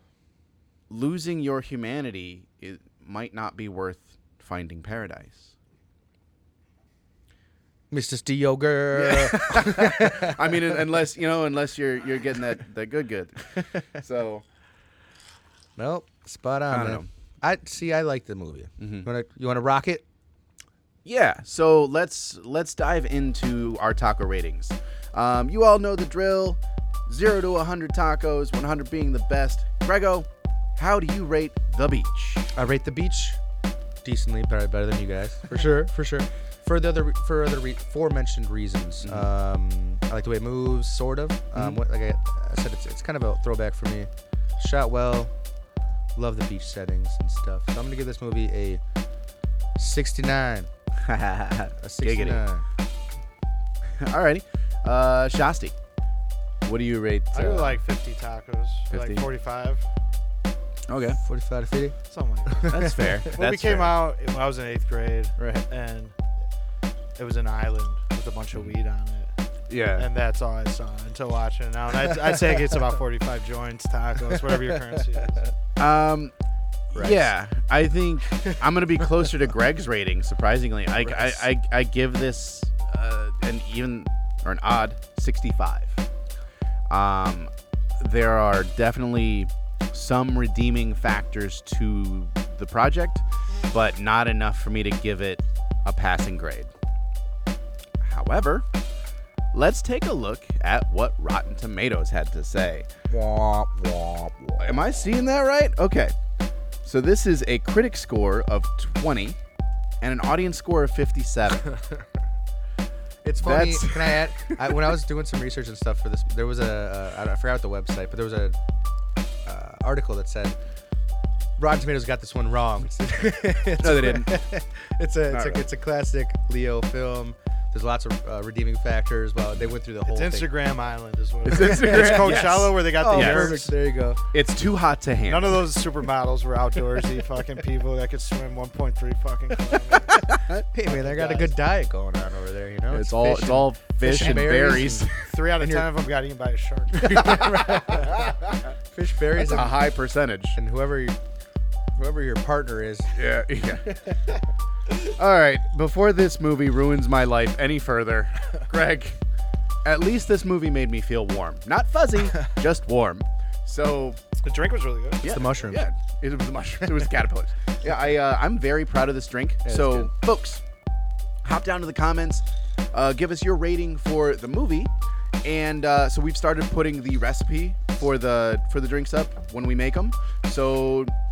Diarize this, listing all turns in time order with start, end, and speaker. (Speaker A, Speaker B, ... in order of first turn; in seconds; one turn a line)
Speaker A: 0.9-5.5
Speaker B: 7.9-10.8
Speaker A: 8.9-14.4
Speaker B: 13.5-13.8
Speaker B: 15.8-20.0
Speaker A: 16.7-17.1
Speaker A: 18.8-19.1
Speaker A: 21.0-32.5
Speaker B: 32.5-33.4
Speaker B: 34.0-45.3
Speaker A: 39.0-39.3
Speaker A: 41.5-41.8
Speaker B: 46.1-48.8
Speaker B: 49.8-50.7
Speaker A: 51.0-52.4
Speaker B: 51.8-52.6
Speaker A: 54.0-55.7
Speaker A: 56.6-57.8
Speaker C: 57.3-59.9
Speaker A: 58.9-59.2
Speaker A: 60.9-61.2
Speaker B: 61.2-62.0
Speaker C: 62.1-66.1
Speaker B: 62.5-63.3
Speaker A: 62.7-64.0
Speaker B: 65.4-65.7
Speaker C: 67.2-69.3
Speaker A: 69.7-70.1
Speaker C: 70.0-75.4
Speaker B: 74.5-75.5
Speaker A: 75.8-76.3
Speaker B: 76.9-77.3
Speaker A: 76.9-86.0
Speaker B: 81.0-81.4
Speaker A: 86.9-96.7
Speaker A: 98.0-98.7
Speaker A: 99.5-102.9
Speaker B: 103.1-104.7
Speaker A: 104.6-106.1
Speaker A: 106.8-109.4
Speaker A: 110.0-111.7
Speaker B: 113.2-118.6
Speaker A: 113.4-114.8
Speaker B: 119.4-120.5
Speaker B: 121.6-130.5
Speaker A: 123.8-124.4
Speaker A: 125.3-125.6
Speaker C: 130.1-133.7
Speaker A: 131.4-133.6
Speaker B: 131.5-132.3
Speaker B: 133.0-134.2
Speaker A: 134.3-135.6
Speaker C: 135.2-140.3
Speaker B: 139.9-145.9
Speaker C: 140.9-141.5
Speaker A: 142.9-145.3
Speaker C: 145.2-148.1
Speaker B: 147.0-148.1
Speaker B: 148.9-149.8
Speaker A: 149.3-150.6
Speaker B: 150.5-151.2
Speaker B: 151.9-153.2
Speaker A: 153.1-153.9
Speaker B: 153.9-154.2
Speaker A: 155.0-159.2
Speaker A: 159.8-164.2
Speaker C: 164.4-165.2
Speaker A: 165.2-170.6
Speaker B: 165.2-165.8
Speaker B: 169.6-170.1
Speaker A: 171.4-174.9
Speaker A: 175.4-181.1